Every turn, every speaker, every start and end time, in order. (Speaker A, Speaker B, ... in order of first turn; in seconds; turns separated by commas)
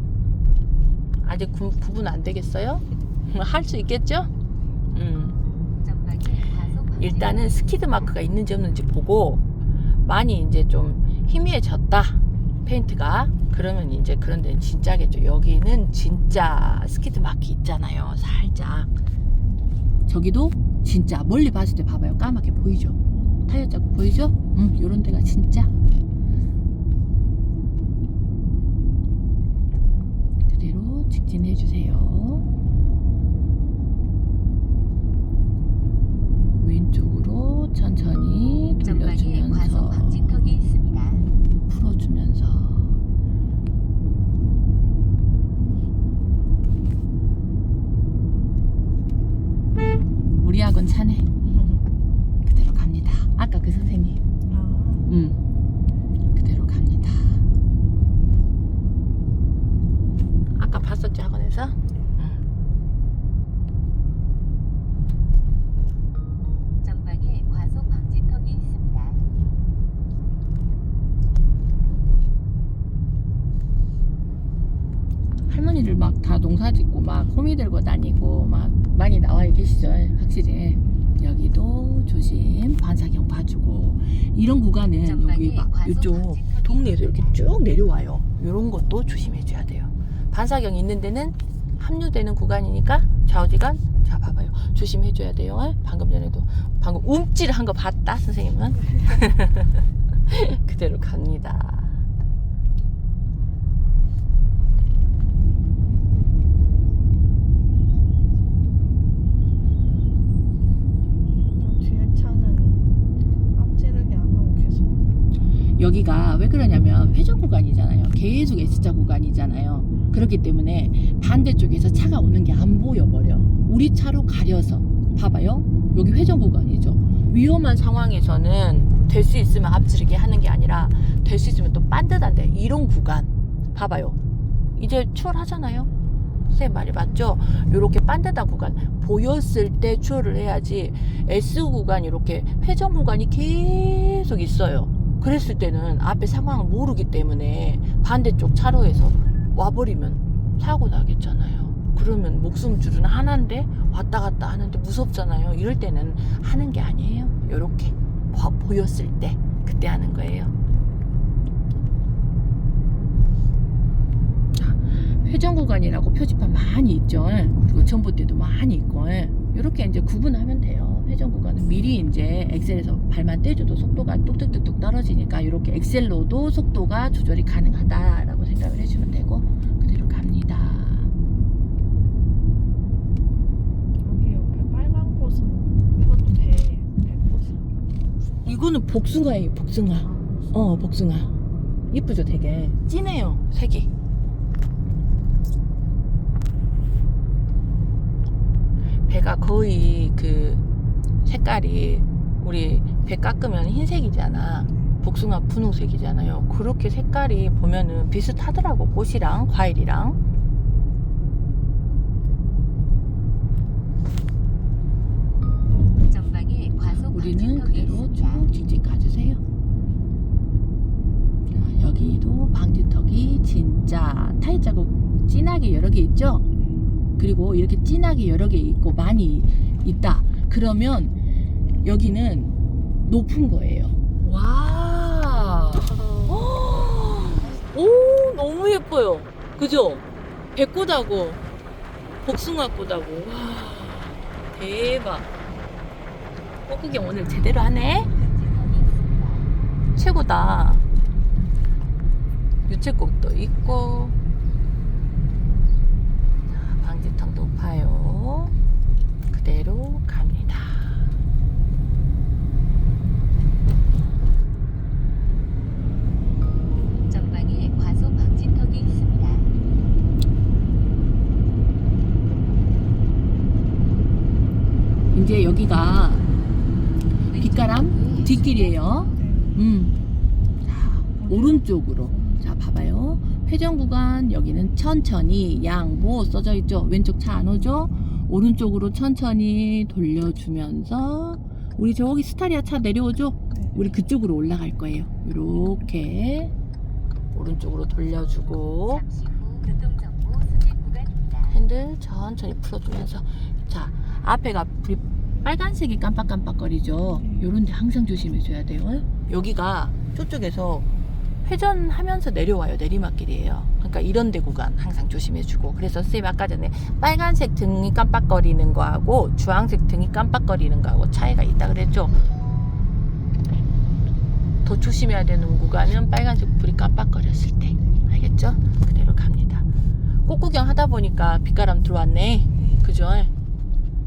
Speaker A: 1.2-4.3, Speaker A: 4.9-5.4, Speaker B: 5.8-8.1, Speaker A: 7.0-9.4, Speaker A: 10.0-18.9, Speaker A: 20.1-25.7, Speaker C: 23.1-23.4, Speaker A: 30.4-32.4, Speaker A: 36.6-40.5, Speaker B: 38.8-41.3, Speaker A: 41.7-43.0, Speaker A: 50.4-51.3, Speaker C: 51.4-51.8, Speaker A: 52.4-54.2, Speaker C: 54.5-55.1, Speaker A: 55.1-55.4, Speaker A: 56.3-57.4, Speaker A: 60.5-62.4, Speaker B: 66.8-69.2, Speaker A: 75.5-102.0, Speaker B: 85.0-87.4, Speaker C: 111.5-112.9, Speaker C: 113.5-115.1, Speaker A: 115.8-134.2, Speaker C: 118.4-119.0, Speaker C: 123.3-123.7, Speaker A: 134.8-135.9, Speaker A: 136.5-160.5, Speaker A: 164.6-181.1, Speaker C: 184.0-187.8, Speaker A: 188.4-191.3, Speaker C: 190.0-190.7, Speaker A: 191.9-193.9, Speaker A: 199.1-200.6, Speaker A: 201.2-210.2, Speaker B: 216.0-218.5, Speaker A: 216.9-219.4, Speaker A: 221.5-226.4, Speaker C: 226.5-226.8, Speaker A: 227.2-231.1, Speaker A: 231.8-232.5, Speaker A: 233.0-241.4, Speaker B: 237.4-237.7, Speaker A: 242.2-245.3, Speaker A: 246.7-248.1, Speaker B: 248.1-249.5, Speaker A: 249.9-250.8, Speaker A: 252.7-254.2, Speaker A: 256.5-258.5, Speaker A: 259.3-261.1, Speaker B: 267.1-269.5, Speaker A: 275.1-276.3, Speaker B: 277.2-279.2, Speaker A: 277.4-280.0, Speaker C: 279.1-279.6, Speaker A: 280.6-296.5, Speaker C: 281.2-282.4, Speaker C: 295.6-295.9, Speaker A: 297.3-299.0, Speaker B: 298.9-301.6, Speaker A: 301.5-310.9, Speaker C: 307.0-307.5, Speaker A: 311.4-322.2, Speaker A: 324.6-329.6, Speaker A: 330.2-333.3